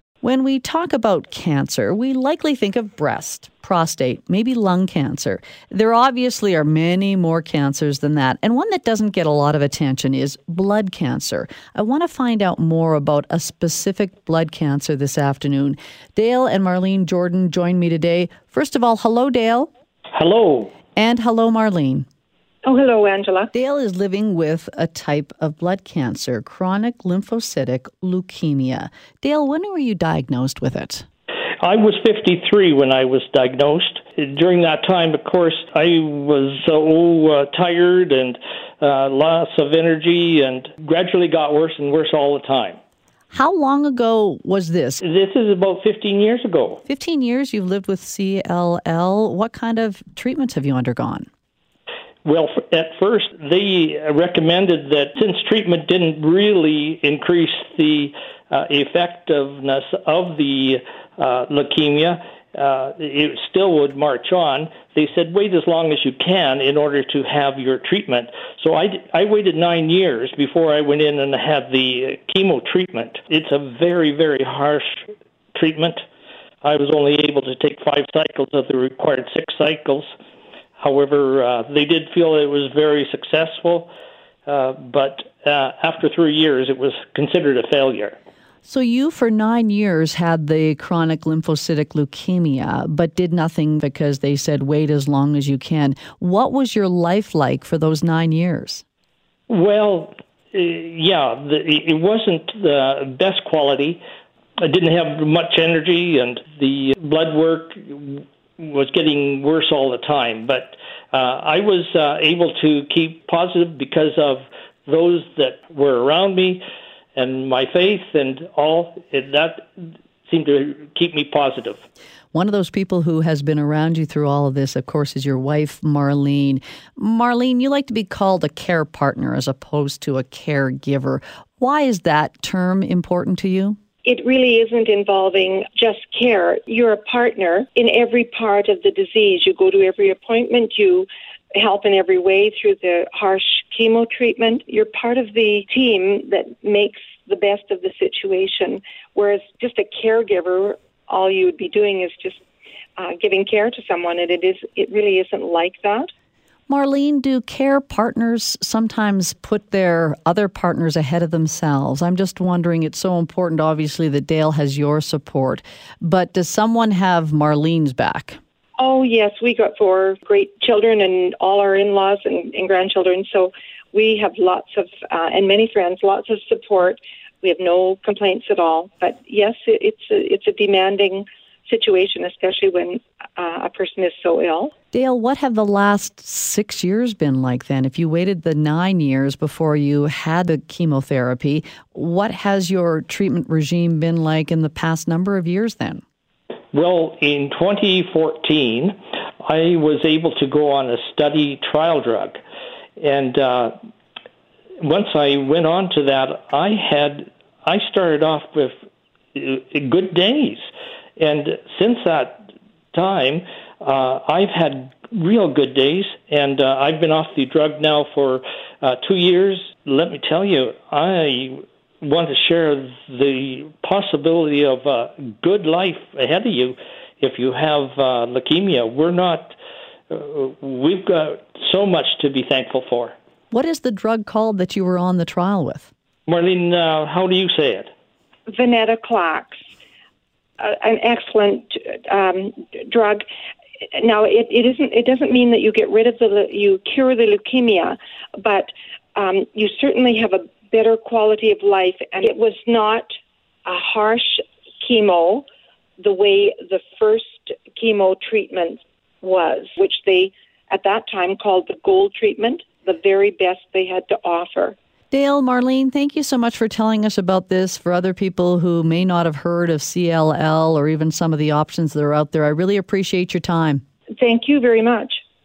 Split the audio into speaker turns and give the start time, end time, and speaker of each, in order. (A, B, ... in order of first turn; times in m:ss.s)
0:00.2-0:19.7 A
0:20.1-0:20.7 B
0:21.0-0:22.0 A
0:22.6-0:23.5 C
0:23.5-0:31.0 A
0:31.6-0:42.8 B
0:43.3-0:45.0 A
0:45.0-0:46.8 B
0:46.9-0:51.3 A
0:52.2-1:16.0 B
1:16.6-1:20.1 B
1:20.8-1:23.9 B
1:24.5-1:28.2 B
1:28.6-1:38.8 A
1:39.5-1:44.0 B
1:44.6-1:56.6 B
1:57.1-2:01.8 B
2:02.3-2:13.8 A
2:14.0-2:32.4 C
2:33.0-2:36.1 C
2:36.7-2:48.4 A
2:48.8-3:04.7 C
3:04.9-3:16.0 A
3:16.7-3:22.4 B
3:23.0-3:23.7 B
3:24.8-3:28.7 B
3:29.3-3:30.6 B
3:31.2-3:49.6 B
3:50.1-3:53.1 B
3:53.5-3:55.9 A
3:56.3-3:57.9 B
3:58.5-3:59.6 C
4:00.6-4:03.2 C
4:03.9-4:13.1 C
4:13.6-4:15.4 C
4:16.0-4:24.8 C
4:25.1-4:33.8 A
4:34.2-4:35.2 C